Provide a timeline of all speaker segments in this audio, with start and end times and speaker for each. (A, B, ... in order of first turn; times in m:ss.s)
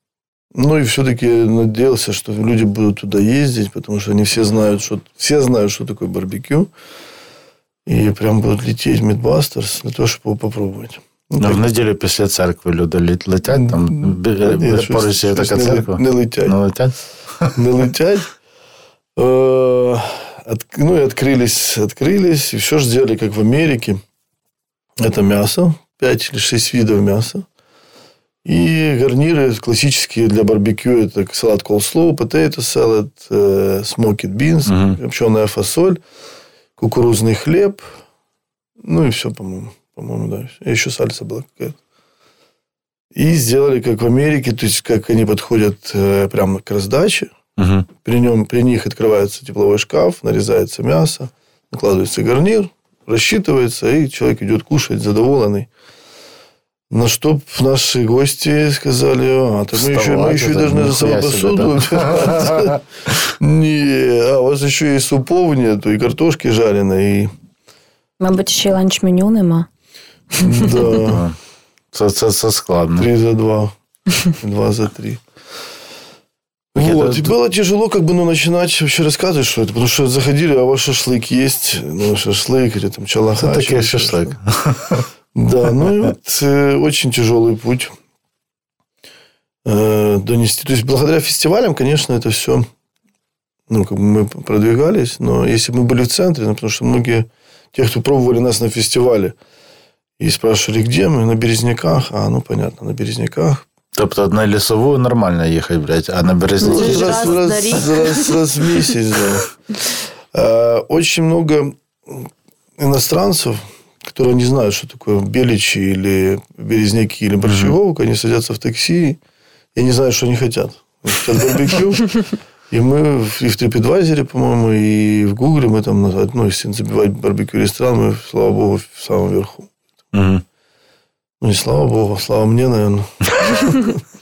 0:00.5-0:06.7 A
0:07.9-0:11.6 A
0:11.4-0:17.5 B
0:13.5-0:16.6 A
0:17.5-0:18.3 A
0:19.2-0:24.0 A
0:25.0-0:27.5 A
0:28.4-0:36.0 A
0:34.7-0:35.0 B
0:36.8-0:38.0 A
0:38.8-0:41.8 A
0:43.1-0:47.3 A
0:47.6-0:47.9 B
0:48.0-0:55.7 A
0:56.9-1:02.8 A
0:59.7-1:02.8 B
1:03.4-1:07.3 A
1:08.2-1:09.7 C
1:10.4-1:11.2 A
1:10.8-1:11.4 B
1:11.9-1:13.1 B
1:13.0-1:15.2 A
1:16.7-1:17.3 B
1:16.8-1:24.3 A
1:23.4-1:25.1 B
1:25.4-1:27.9 A
1:25.8-1:26.1 B
1:29.6-1:32.7 A
1:33.7-1:39.4 A
1:40.2-1:43.7 A
1:44.0-1:47.4 B
1:46.6-1:48.3 C
1:46.6-1:49.5 A
1:50.3-1:59.2 A
1:57.4-1:57.8 B
1:59.8-2:02.1 A
2:02.7-2:09.7 A
2:10.1-2:10.4 B
2:11.4-2:14.0 A